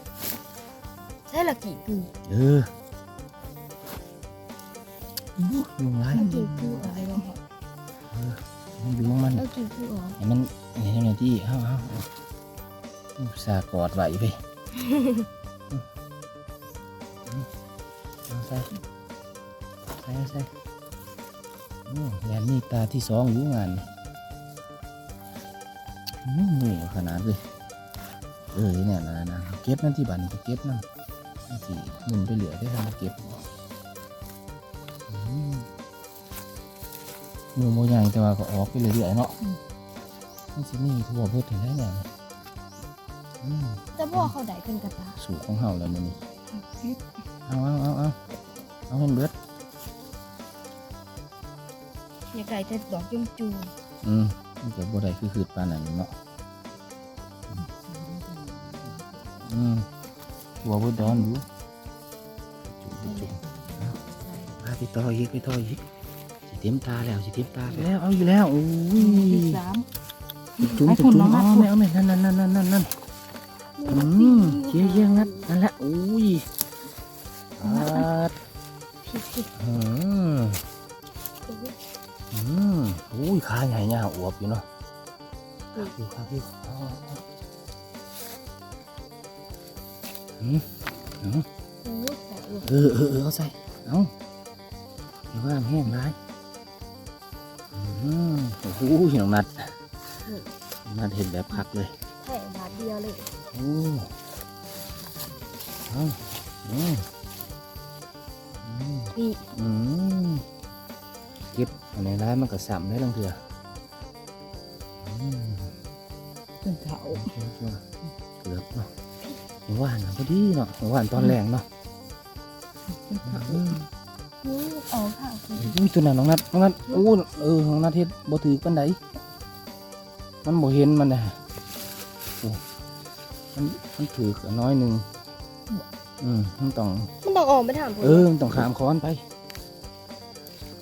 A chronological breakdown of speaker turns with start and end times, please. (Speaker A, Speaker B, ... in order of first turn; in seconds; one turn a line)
Speaker A: 1.3-2.1
Speaker B: 2.3-2.7
Speaker B: 5.4-6.9
Speaker A: 6.1-7.3
Speaker C: 6.1-7.4
Speaker B: 8.1-9.5
Speaker A: 9.3-10.2
Speaker B: 10.2-12.1
Speaker B: 13.2-14.4
Speaker A: 14.8-15.3
Speaker B: 18.3-18.7
Speaker B: 20.0-20.5
Speaker B: 21.9-23.9
Speaker B: 26.2-27.4
Speaker B: 28.5-30.8
Speaker B: 31.5-33.4
Speaker B: 35.1-35.7
Speaker B: 37.5-39.4
Speaker B: 40.5-42.1
Speaker B: 43.4-44.4
Speaker A: 44.0-45.2
Speaker B: 45.2-46.2
Speaker C: 46.7-47.0
Speaker B: 47.5-48.2
Speaker B: 48.9-49.3
Speaker A: 52.3-53.7
Speaker B: 54.0-56.1
Speaker C: 57.7-59.1
Speaker B: 59.4-59.9
Speaker B: 60.6-61.4
Speaker B: 62.7-64.0
Speaker C: 64.0-64.5
Speaker B: 64.6-65.8
Speaker B: 66.5-69.6
Speaker C: 69.0-69.9
Speaker C: 70.6-71.7
Speaker B: 70.6-72.9
Speaker A: 73.8-75.5
Speaker B: 73.9-76.5
Speaker B: 77.6-78.3
Speaker A: 77.6-78.1
Speaker A: 79.0-79.5
Speaker B: 79.6-80.6
Speaker A: 81.5-81.8
Speaker B: 82.3-84.7
Speaker B: 85.8-87.2
Speaker B: 90.4-90.7
Speaker B: 91.2-91.5
Speaker A: 91.8-92.7
Speaker B: 92.6-94.1
Speaker B: 95.3-96.2
Speaker B: 97.7-99.7
Speaker A: 100.3-100.5
Speaker B: 100.9-101.9
Speaker A: 102.2-103.3
Speaker B: 103.5-104.1
Speaker B: 105.9-107.1
Speaker B: 108.6-110.4
Speaker A: 109.2-109.5
Speaker B: 111.5-113.4
Speaker B: 115.0-115.7
Speaker C: 116.6-117.3
Speaker B: 117.1-117.8
Speaker B: 118.4-118.9
Speaker B: 119.7-121.7
Speaker C: 123.1-123.7
Speaker B: 123.2-123.9
Speaker A: 124.4-125.8
Speaker B: 125.5-129.0
Speaker B: 130.4-131.4
Speaker B: 133.6-135.1
Speaker B: 136.2-137.1
Speaker A: 137.2-138.3
Speaker B: 138.0-139.2